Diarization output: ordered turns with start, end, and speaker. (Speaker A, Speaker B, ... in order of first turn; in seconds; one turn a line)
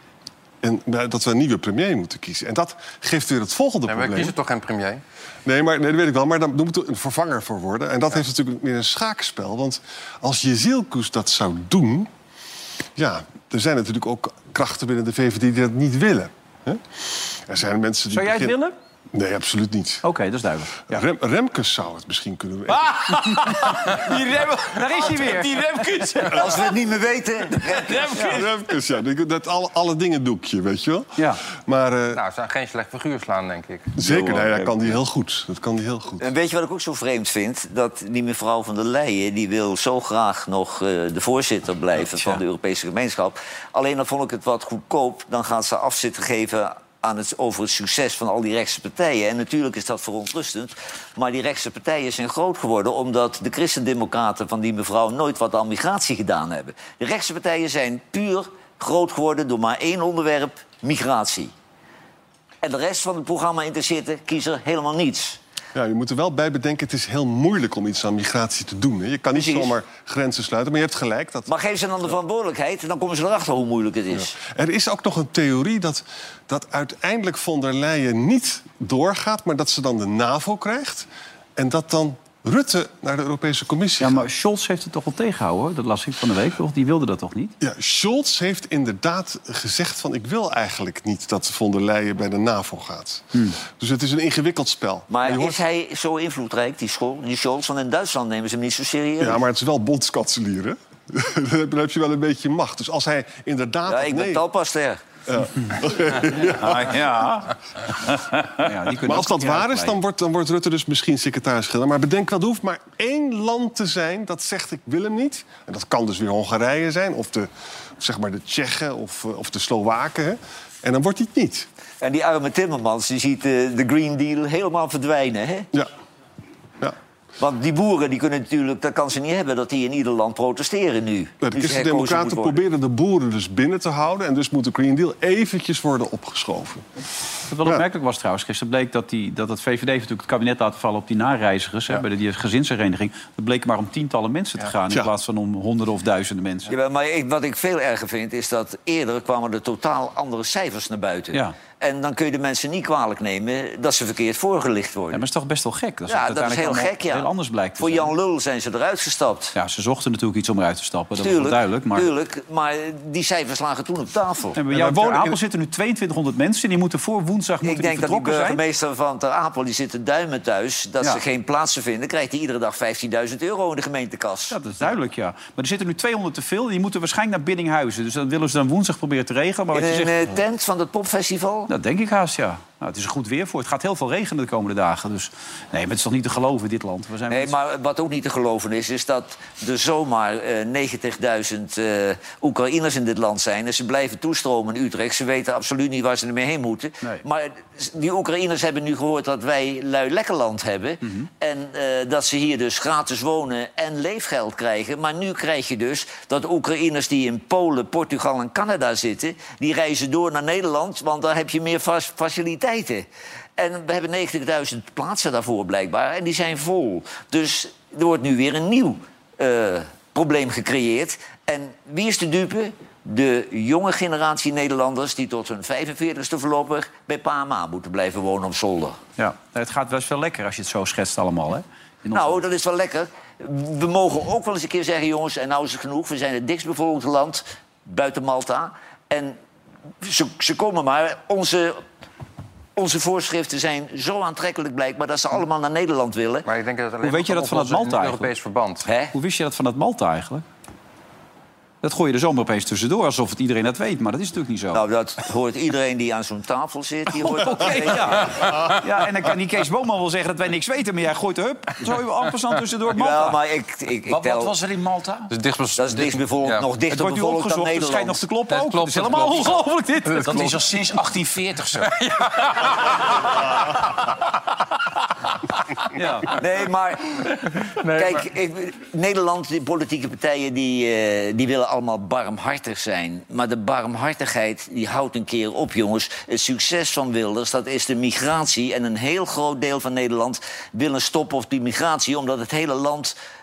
Speaker A: 0.6-4.3
Speaker B: 3.9-5.0
Speaker A: 5.4-12.1
Speaker A: 12.9-18.6
Speaker C: 18.1-18.7
Speaker A: 19.1-20.0
Speaker C: 20.0-20.8
Speaker A: 20.9-23.4
Speaker C: 23.3-26.4
Speaker D: 23.4-26.6
Speaker E: 26.3-28.3
Speaker D: 27.6-28.5
Speaker C: 28.1-28.4
Speaker A: 28.2-32.2
Speaker B: 32.1-33.9
Speaker A: 34.0-36.2
Speaker E: 36.2-61.5
Speaker E: 62.6-65.4
Speaker A: 65.7-71.5
Speaker E: 69.3-69.7
Speaker E: 71.5-74.3
Speaker A: 74.1-84.2
Speaker C: 84.0-87.5
Speaker A: 87.6-95.6
Speaker E: 95.1-99.4
Speaker A: 99.2-104.4
Speaker E: 103.9-105.0
Speaker A: 105.3-107.1
Speaker C: 106.4-107.5
Speaker C: 108.1-110.0
Speaker A: 109.0-121.7
Speaker E: 122.0-125.7
Speaker E: 127.4-132.6
Speaker A: 131.4-136.8
Speaker C: 137.5-146.7
Speaker E: 146.7-155.2
Speaker C: 155.1-158.1
Speaker E: 156.1-159.5
Speaker C: 159.5-162.1
Speaker E: 161.2-164.6
Speaker C: 164.5-168.6
Speaker A: 164.7-165.4
Speaker E: 167.6-174.6
Speaker C: 174.5-180.1
Speaker E: 179.7-181.7
Speaker C: 181.7-187.5
Speaker E: 187.3-229.0
Speaker C: 229.2-232.4
Speaker E: 232.1-239.4
Speaker E: 240.0-241.8
Speaker E: 242.8-246.4
Speaker B: 246.4-248.8
Speaker C: 247.0-248.3
Speaker E: 248.8-249.1
Speaker C: 249.1-250.4
Speaker C: 251.8-254.8
Speaker E: 254.7-258.6
Speaker C: 257.2-263.4
Speaker E: 262.9-264.5
Speaker D: 264.1-265.3
Speaker B: 265.3-266.6
Speaker E: 265.8-268.2
Speaker C: 266.9-270.6
Speaker B: 268.5-270.5
Speaker D: 270.2-271.9
Speaker B: 271.9-273.0
Speaker C: 275.9-276.4
Speaker E: 276.3-293.1
Speaker B: 277.8-278.1